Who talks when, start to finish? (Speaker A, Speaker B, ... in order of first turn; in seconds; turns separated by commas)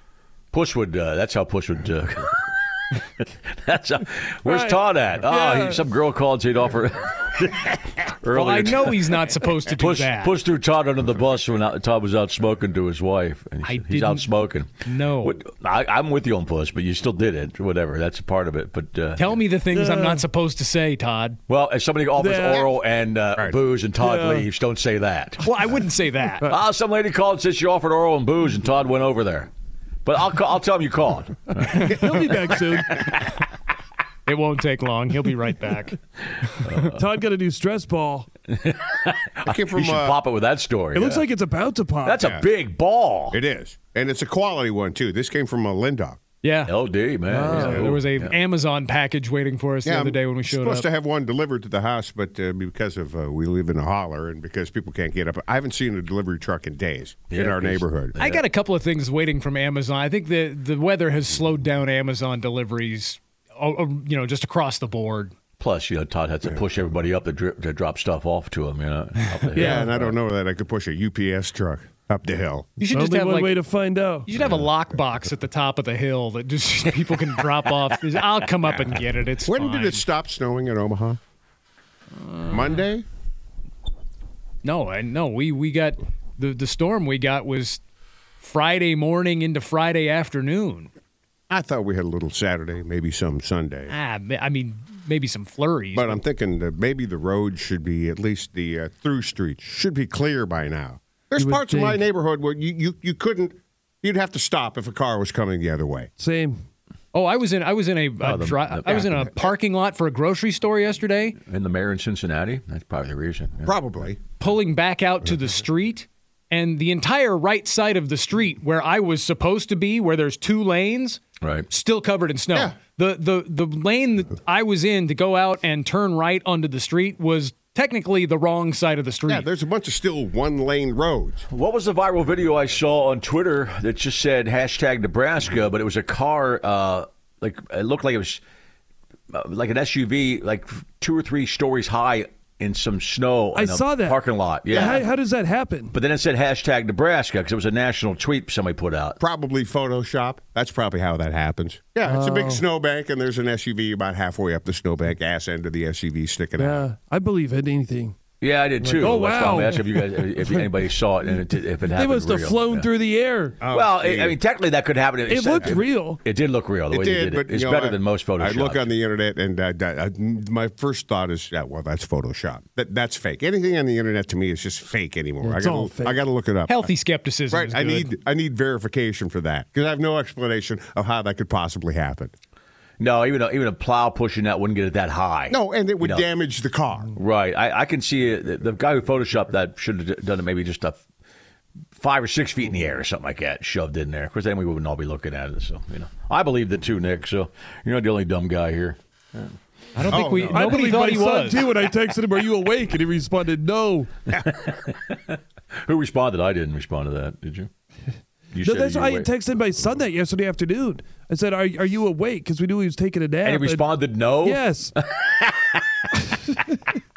Speaker A: 0.5-19.4, Speaker B: 4.5-5.8, Speaker C: 8.3-10.4, Speaker C: 13.6-15.4, Speaker C: 19.2-21.4, Speaker B: 19.7-20.3, Speaker A: 21.5-25.5, Speaker B: 22.2-22.7, Speaker B: 24.0-24.5, Speaker C: 25.4-26.5, Speaker A: 26.5-29.5, Speaker A: 30.1-33.2, Speaker B: 31.7-33.0, Speaker C: 34.3-36.9, Speaker A: 36.6-37.1, Speaker B: 37.0-38.3, Speaker A: 38.5-41.3, Speaker D: 39.5-40.2, Speaker B: 40.9-42.2, Speaker A: 42.0-43.4, Speaker D: 43.3-46.2, Speaker C: 46.4-46.7, Speaker A: 46.7-48.3, Speaker B: 47.3-48.0, Speaker C: 47.5-50.9, Speaker D: 49.9-58.1, Speaker A: 57.3-58.5, Speaker C: 58.1-65.3, Speaker A: 65.6-70.1, Speaker B: 69.6-70.0, Speaker D: 69.6-72.7, Speaker C: 72.8-73.6, Speaker B: 72.9-74.3, Speaker C: 74.2-80.0, Speaker A: 74.3-74.7, Speaker D: 79.5-81.2, Speaker C: 82.2-82.8, Speaker D: 82.5-83.0, Speaker C: 84.6-87.8, Speaker C: 88.4-90.9, Speaker D: 91.5-93.9, Speaker C: 93.9-96.2, Speaker D: 95.9-106.1, Speaker B: 101.4-102.0, Speaker B: 106.2-106.6, Speaker C: 107.1-111.4, Speaker A: 108.2-109.2, Speaker A: 111.4-114.0, Speaker D: 113.7-114.2, Speaker C: 114.4-129.5, Speaker A: 121.4-121.7, Speaker D: 129.3-131.5, Speaker A: 131.5-138.4, Speaker A: 139.3-145.1, Speaker B: 143.5-145.9, Speaker D: 144.7-145.0, Speaker A: 145.9-149.2, Speaker D: 149.2-156.9, Speaker B: 152.1-152.6, Speaker B: 156.6-158.2, Speaker A: 158.4-162.9, Speaker B: 158.8-163.6, Speaker D: 163.6-164.4, Speaker A: 163.7-168.9, Speaker B: 165.3-166.2, Speaker D: 166.9-176.9, Speaker B: 175.4-176.2, Speaker C: 176.7-178.1, Speaker D: 177.5-182.3, Speaker A: 183.0-186.3, Speaker D: 185.5-187.1, Speaker A: 187.2-191.0, Speaker A: 192.0-199.6, Speaker C: 199.9-201.6, Speaker D: 200.1-200.6, Speaker A: 200.2-200.5, Speaker B: 200.5-204.1, Speaker A: 204.3-207.7, Speaker A: 208.5-209.3, Speaker B: 208.6-214.9, Speaker A: 213.4-216.2